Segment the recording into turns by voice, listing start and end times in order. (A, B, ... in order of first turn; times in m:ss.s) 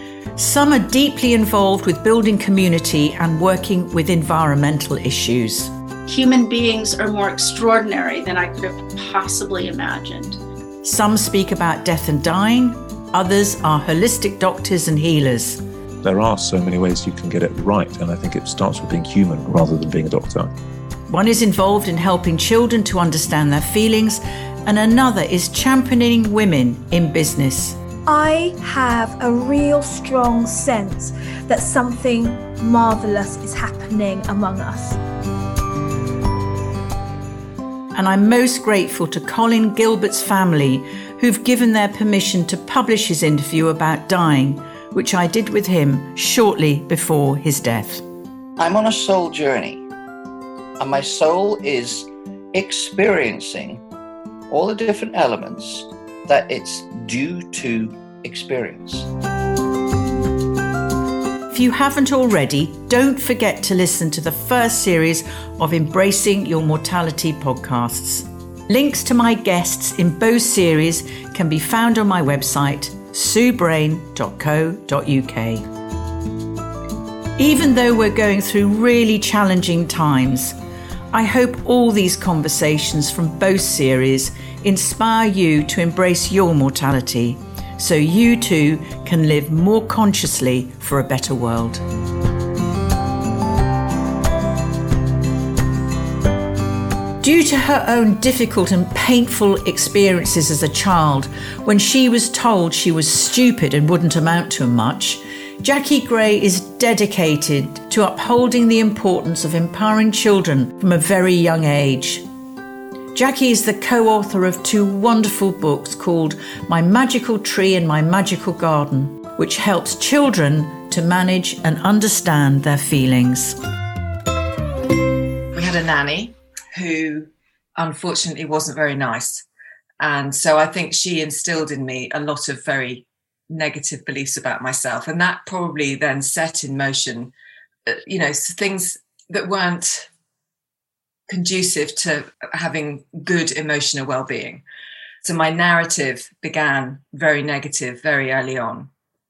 0:00.4-0:05.7 A
0:06.1-0:10.4 B
0:10.8-0:15.6 A
0:16.0-0:20.5 C
0:21.1-0:27.8 A
0:28.1-0:35.0 D
0:38.0-0:48.0 A
0:48.6-0:49.9 E
0:50.8-0:53.8 E
0:54.5-0:59.1 E
1:01.5-1:15.6 A
1:17.4-1:20.6 A
1:21.1-1:31.8 A
1:37.2-1:52.2 A
1:53.1-2:03.6 A
2:05.5-2:09.4 F
2:10.0-2:17.3 F
2:17.8-2:20.1 F
2:21.3-2:24.6 F
2:25.2-2:28.9 F